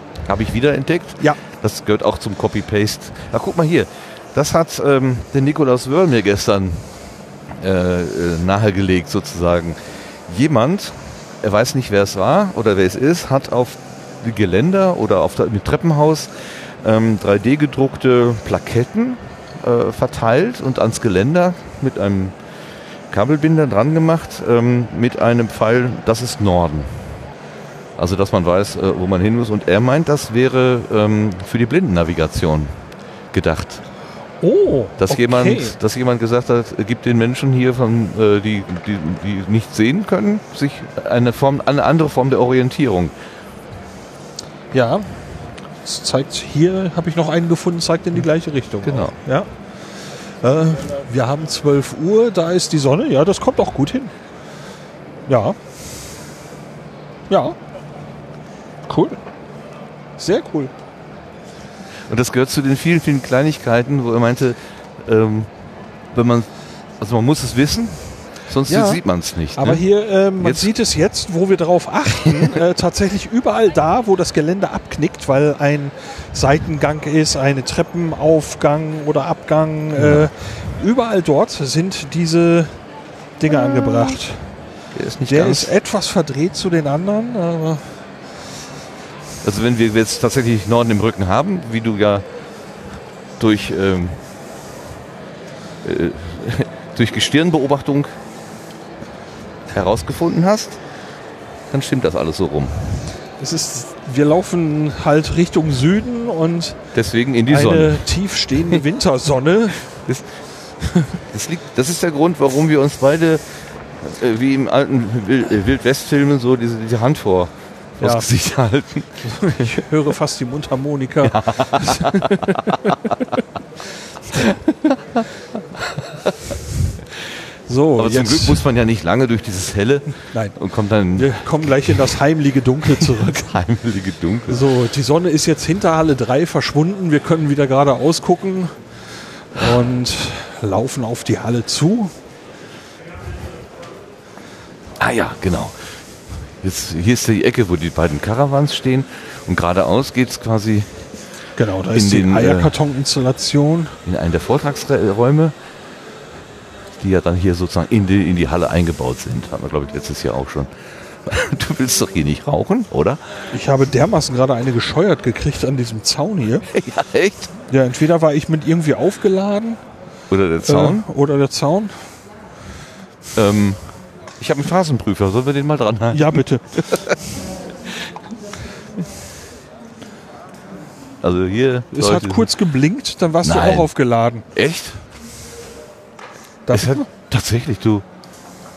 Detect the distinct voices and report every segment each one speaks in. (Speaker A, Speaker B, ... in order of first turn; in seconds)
Speaker A: 0.2-22.4, 23.1-27.2, 28.0-32.8, 33.3-33.8, 35.0-43.1, 48.8-49.1, 62.1-65.5, 66.1-70.7, 80.0-80.3, 84.9-85.7, 89.4-92.2, 93.4-94.2, 95.8-98.2, 99.7-100.8, 101.7-103.1, 106.9-108.1, 109.9-110.4, 111.1-119.7, 121.2-122.6, 124.9-125.2, 126.0-126.3, 128.0-132.0, 132.9-134.7, 145.0-146.0, 146.6-151.1, 151.9-152.8, 154.0-155.5, 157.0-163.2, 166.7-167.5, 170.3-171.1, 173.3-177.1, 181.2-182.5, 183.4-183.9, 184.5-185.0, 186.7-188.0
Speaker B: 34.4-35.8, 44.7-54.1, 55.3-55.6, 57.3-57.5, 58.9-59.2, 60.2-60.7, 68.7-69.0, 69.5-82.9, 83.4-84.6, 85.2-88.0, 103.4-106.8, 107.5-109.8, 118.0-118.2, 119.2-122.6, 127.7-128.6, 130.3-130.6, 131.1-133.5, 134.5-138.8, 139.5-142.1, 151.6-153.9, 163.5-166.7, 167.7-169.8, 170.6-172.2, 176.1-177.1, 181.9-184.4, 186.7-187.1